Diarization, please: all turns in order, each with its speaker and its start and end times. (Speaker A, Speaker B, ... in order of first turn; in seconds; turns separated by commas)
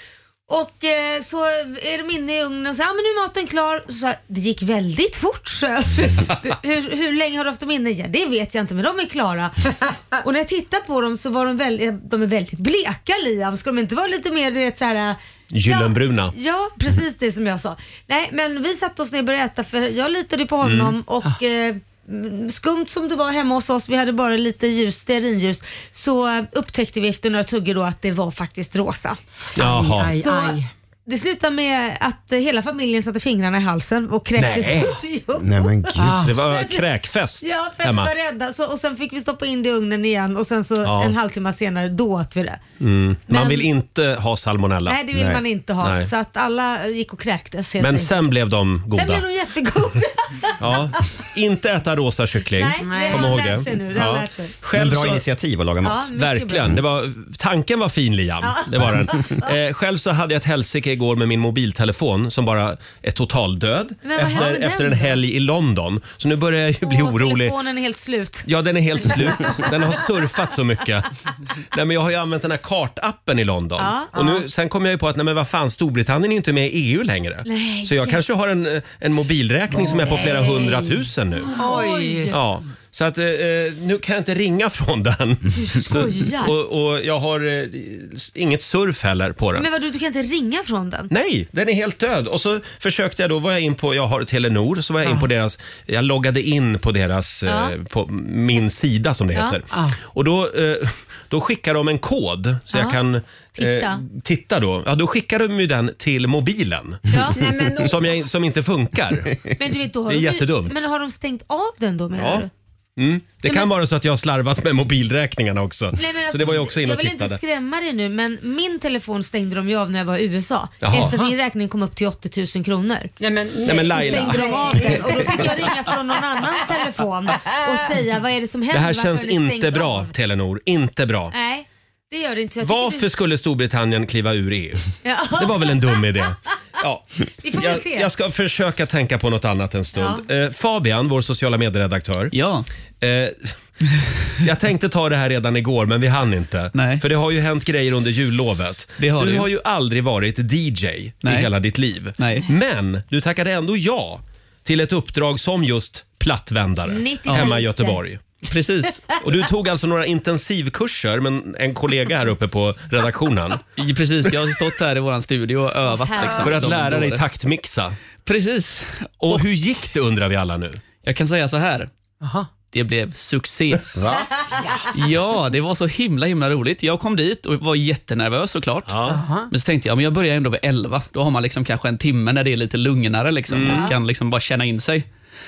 Speaker A: 0.5-29.2, Speaker B: 15.5-16.3, Speaker B: 20.6-20.9, Speaker B: 29.6-30.1, Speaker C: 29.6-30.7, Speaker A: 30.0-36.8, Speaker B: 34.4-35.0, Speaker D: 35.4-36.2, Speaker C: 36.0-36.3, Speaker B: 36.1-38.1, Speaker A: 37.4-42.6, Speaker B: 40.8-41.1, Speaker B: 42.8-45.0, Speaker A: 43.3-43.7, Speaker A: 44.9-48.1, Speaker D: 45.1-45.4, Speaker B: 45.8-46.1, Speaker B: 47.8-49.2, Speaker A: 48.9-50.6, Speaker B: 50.6-55.2, Speaker A: 52.5-54.5, Speaker C: 52.8-53.3, Speaker D: 54.7-56.1, Speaker A: 55.8-56.7, Speaker B: 56.1-67.6, Speaker A: 58.4-59.5, Speaker A: 64.0-65.2, Speaker A: 66.8-68.5, Speaker B: 68.5-71.1, Speaker A: 69.0-69.7, Speaker B: 71.7-81.5, Speaker A: 73.8-74.1, Speaker A: 77.4-78.2, Speaker C: 79.8-80.2, Speaker A: 80.0-81.0, Speaker A: 81.5-82.4, Speaker C: 81.6-82.3, Speaker B: 82.3-89.7, Speaker A: 85.6-86.5, Speaker A: 89.5-91.1, Speaker B: 91.1-107.2, Speaker C: 95.0-95.3, Speaker A: 97.5-97.7, Speaker C: 99.7-100.0, Speaker A: 102.7-103.0, Speaker A: 103.6-104.0, Speaker A: 107.1-107.5, Speaker C: 107.3-108.0, Speaker B: 107.8-109.4, Speaker A: 109.5-112.5, Speaker B: 110.1-110.8, Speaker B: 112.2-112.5, Speaker B: 113.0-117.4, Speaker A: 113.4-113.7, Speaker A: 115.9-123.1, Speaker B: 120.8-121.2, Speaker C: 121.0-121.3, Speaker C: 123.2-125.8, Speaker B: 123.6-125.0, Speaker A: 123.9-130.1, Speaker B: 128.7-131.3, Speaker A: 131.3-133.0, Speaker B: 132.6-142.3, Speaker A: 135.0-136.1, Speaker A: 137.4-138.1, Speaker A: 139.9-140.2, Speaker E: 142.3-142.7, Speaker B: 143.0-143.5, Speaker B: 144.4-158.2, Speaker E: 146.7-147.0, Speaker E: 149.0-149.5, Speaker E: 151.2-151.5, Speaker E: 152.2-152.5, Speaker A: 156.9-158.0, Speaker E: 157.3-157.5, Speaker E: 158.4-159.2, Speaker B: 159.2-163.6, Speaker E: 163.8-167.2, Speaker A: 166.0-166.5, Speaker B: 166.2-168.0, Speaker E: 168.2-169.4, Speaker B: 169.2-170.8, Speaker E: 171.0-171.9, Speaker C: 172.2-172.5, Speaker E: 172.6-173.9, Speaker D: 174.0-174.3, Speaker E: 174.9-185.1, Speaker B: 178.9-179.2, Speaker C: 179.1-179.5, Speaker B: 183.5-183.9, Speaker A: 183.6-183.9